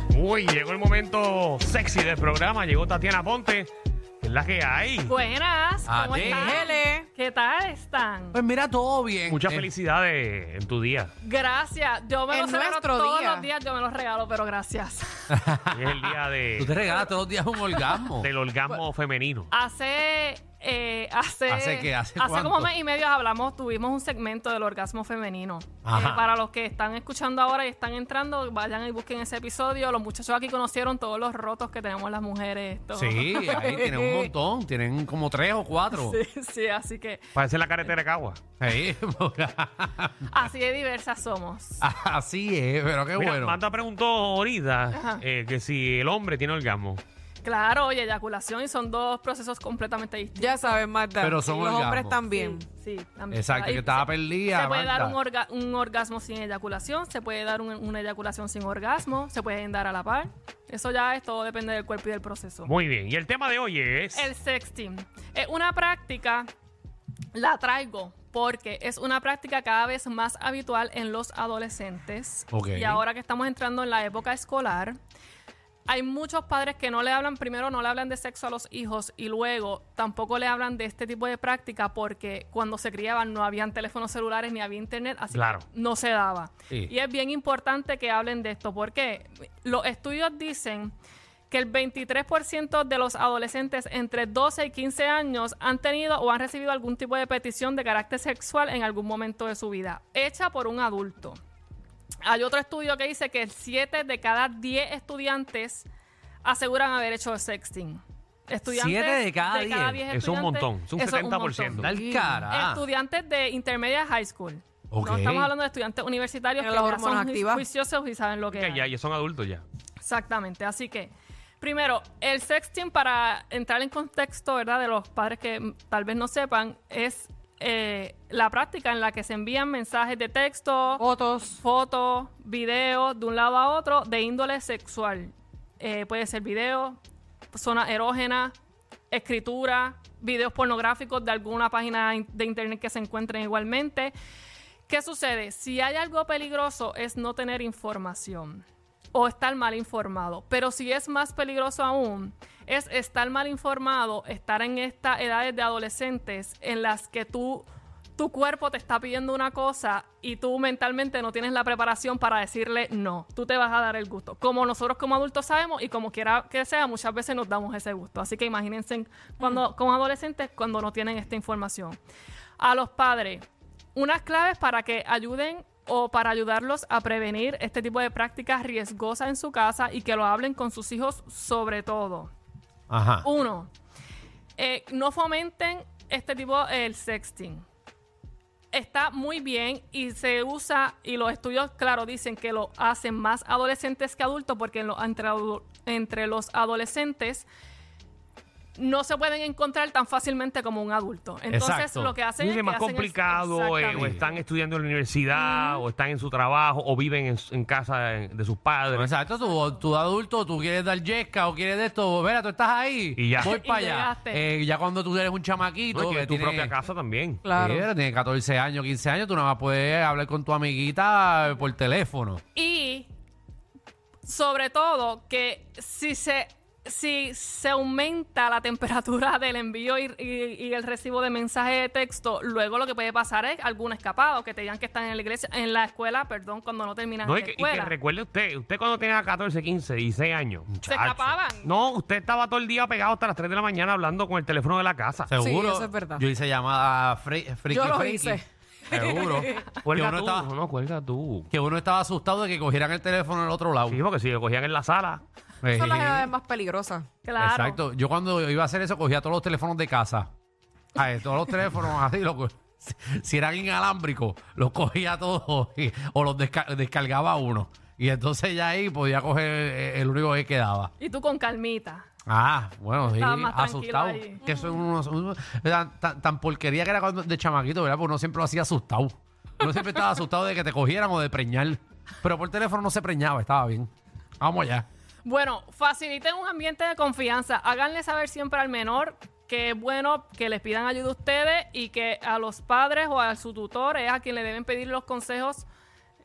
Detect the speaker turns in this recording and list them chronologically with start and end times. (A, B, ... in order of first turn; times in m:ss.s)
0:00.1-0:03.7 A
0:04.2-0:05.1 A
0:05.0-0:08.4 B
0:05.8-0:06.7 C
0:06.2-0:07.1 D
0:08.3-0:09.7 C
0:09.3-0:11.1 A
0:11.2-0:15.3 B
0:12.3-0:13.5 D
0:15.3-0:18.3 C
0:15.7-0:16.8 A
0:18.2-0:19.5 A
0:19.5-0:33.8 B
0:21.5-0:22.7 C
0:25.8-0:26.2 C
0:32.9-0:36.2 C
0:33.5-0:34.3 D
0:35.9-0:37.3 B
0:37.3-0:38.4 A
0:38.6-0:40.3 C
0:40.3-0:41.8 B
0:41.8-0:43.6 C
0:43.2-0:47.0 A
0:44.9-0:45.2 B
0:47.4-0:50.8 B
0:50.4-0:52.6 D
0:51.2-0:52.2 C
0:52.3-1:02.7 B
0:53.3-0:55.2 C
1:02.7-1:04.3 A
1:04.1-1:06.5 B
1:07.3-1:15.0 B
1:12.5-1:13.0 C
1:15.9-1:31.0 B
1:25.3-1:25.6 A
1:31.5-1:41.4 B
1:42.2-1:45.9 B
1:46.4-1:51.9 B
1:48.7-1:50.0 C
1:50.1-1:52.0 A
1:51.8-1:52.9 C
1:52.0-1:52.4 D
1:52.5-1:58.9 B
1:54.9-1:55.5 C
1:56.6-1:57.6 D
1:58.5-1:59.6 A
2:00.0-2:11.0 B
2:11.0-2:11.6 D
2:11.6-2:17.0 B
2:17.5-2:18.6 B
2:19.1-2:24.1 B
2:24.9-2:52.0 B
2:52.6-3:02.3 B
3:02.9-3:03.2 C
3:03.2-3:03.7 B
3:04.6-3:07.6 B
3:08.7-3:17.5 B
3:18.8-3:24.4 B
3:21.5-3:22.2 C
3:22.4-3:29.1 A
3:23.9-3:24.2 C
3:25.4-3:25.8 B
3:28.9-3:36.8 C
3:33.2-3:33.5 A
3:33.4-3:34.4 B
3:35.9-3:37.4 A
3:37.4-3:37.9 D
3:37.6-3:42.4 C
3:42.6-3:43.1 B
3:44.2-3:57.9 B
3:57.2-4:05.3 A
4:00.7-4:01.3 C
4:00.8-4:01.7 B
4:05.3-4:08.4 C
4:05.4-4:06.2 D
4:07.7-4:09.8 D
4:08.9-4:11.5 A
4:08.9-4:10.5 C
4:11.5-4:14.0 C
4:13.9-4:15.2 A
4:15.6-4:16.3 C
4:15.8-4:17.1 D
4:17.2-4:17.8 B
4:17.4-4:20.3 C
4:21.0-4:30.9 C
4:31.0-4:32.1 B
4:32.3-4:44.9 C
4:33.0-4:34.4 B
4:34.5-4:34.7 D
4:45.2-4:55.7 B